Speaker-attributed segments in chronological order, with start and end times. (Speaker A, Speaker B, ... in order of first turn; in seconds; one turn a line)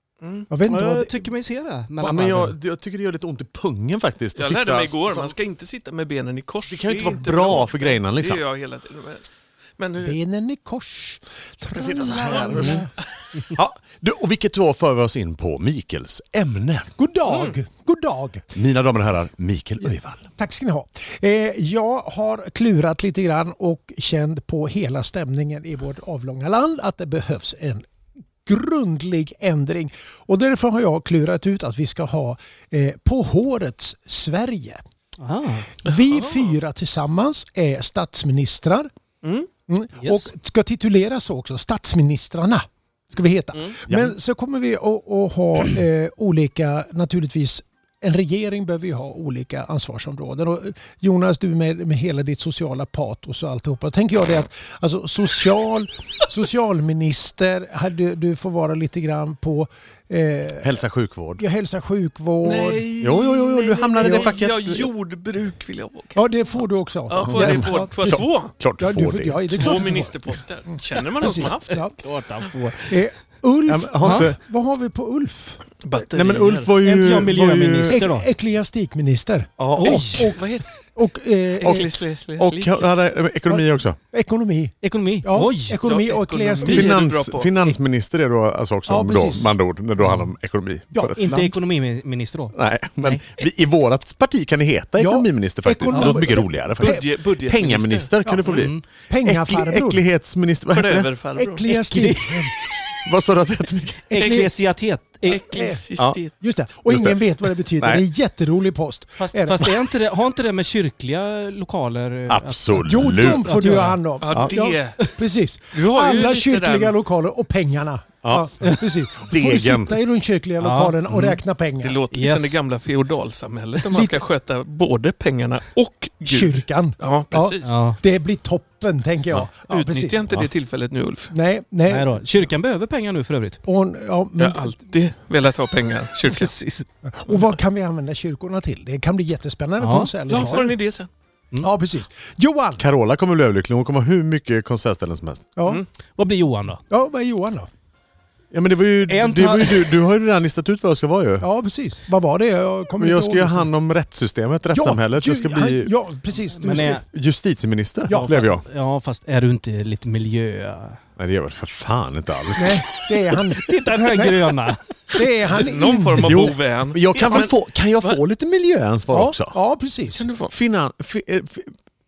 Speaker A: 0.2-0.5
Speaker B: 0.5-1.3
Speaker C: 0.7-2.6
Speaker D: 2.0-5.4
Speaker A: 4.4-10.2
Speaker D: 6.7-8.4
Speaker B: 10.0-12.9
Speaker D: 11.7-16.9
Speaker A: 12.2-12.8
Speaker B: 17.0-18.5
Speaker A: 17.3-17.6
Speaker D: 18.5-20.3
Speaker B: 19.9-27.9
Speaker B: 28.5-34.8
Speaker C: 35.2-35.7
Speaker B: 35.8-38.9
Speaker A: 35.9-36.6
Speaker A: 39.2-39.5
Speaker B: 39.7-60.8
Speaker C: 40.0-40.3
Speaker A: 43.5-43.8
Speaker D: 43.9-44.2
Speaker D: 60.6-61.4
Speaker B: 61.4-62.9
Speaker A: 62.4-66.2
Speaker D: 63.0-64.9
Speaker B: 64.0-64.3
Speaker B: 66.2-68.2
Speaker A: 67.1-68.5
Speaker D: 67.2-69.8
Speaker B: 68.8-72.0
Speaker A: 69.5-71.9
Speaker C: 72.0-72.8
Speaker B: 72.7-76.1
Speaker D: 73.7-74.4
Speaker C: 74.0-74.3
Speaker A: 75.8-76.7
Speaker D: 76.1-78.0
Speaker C: 76.8-78.3
Speaker B: 77.9-82.0
Speaker D: 79.6-80.3
Speaker C: 79.8-80.3
Speaker A: 80.3-80.8
Speaker A: 81.6-82.9
Speaker D: 82.4-84.0
Speaker B: 83.5-86.9
Speaker C: 84.8-85.8
Speaker A: 85.8-87.7
Speaker D: 86.7-91.6
Speaker B: 88.9-89.5
Speaker C: 90.0-90.3
Speaker C: 91.2-93.3
Speaker D: 92.5-101.1
Speaker B: 95.0-97.1
Speaker A: 96.8-98.7
Speaker C: 98.5-98.8
Speaker B: 99.1-100.0
Speaker A: 100.7-101.8
Speaker B: 101.4-102.5
Speaker C: 101.7-102.5
Speaker D: 103.0-104.2
Speaker C: 104.1-105.4
Speaker B: 104.1-104.5
Speaker A: 104.2-104.5
Speaker A: 105.3-106.3
Speaker B: 105.3-105.8
Speaker B: 106.4-109.7
Speaker D: 106.9-108.1
Speaker C: 109.2-114.0
Speaker D: 112.3-114.5
Speaker B: 112.8-122.0
Speaker A: 114.2-115.1
Speaker A: 115.7-117.0
Speaker D: 118.2-120.0
Speaker C: 120.6-121.4
Speaker A: 121.8-127.8
Speaker C: 122.1-122.6
Speaker B: 123.9-124.2
Speaker B: 126.3-130.4
Speaker C: 127.6-128.0
Speaker A: 129.7-131.3
Speaker B: 131.3-132.4
Speaker C: 131.9-133.6
Speaker B: 133.7-134.8
Speaker A: 134.4-136.6
Speaker C: 136.3-136.9
Speaker B: 137.1-140.8
Speaker C: 139.8-140.6
Speaker A: 140.3-141.1
Speaker B: 141.6-142.9
Speaker D: 142.8-145.5
Speaker B: 145.6-145.8
Speaker C: 146.2-146.8
Speaker B: 146.9-147.7
Speaker D: 148.5-151.5
Speaker C: 149.1-149.9
Speaker B: 151.4-153.7
Speaker D: 153.0-155.9
Speaker B: 154.7-157.0
Speaker C: 156.6-157.0
Speaker D: 156.9-158.7
Speaker B: 158.1-158.4
Speaker C: 158.1-161.0
Speaker D: 161.2-163.5
Speaker B: 162.6-164.6
Speaker C: 163.6-165.2
Speaker B: 165.1-166.6
Speaker A: 165.6-168.2
Speaker D: 166.2-169.6
Speaker B: 169.1-170.3
Speaker A: 170.1-170.5
Speaker D: 170.5-171.7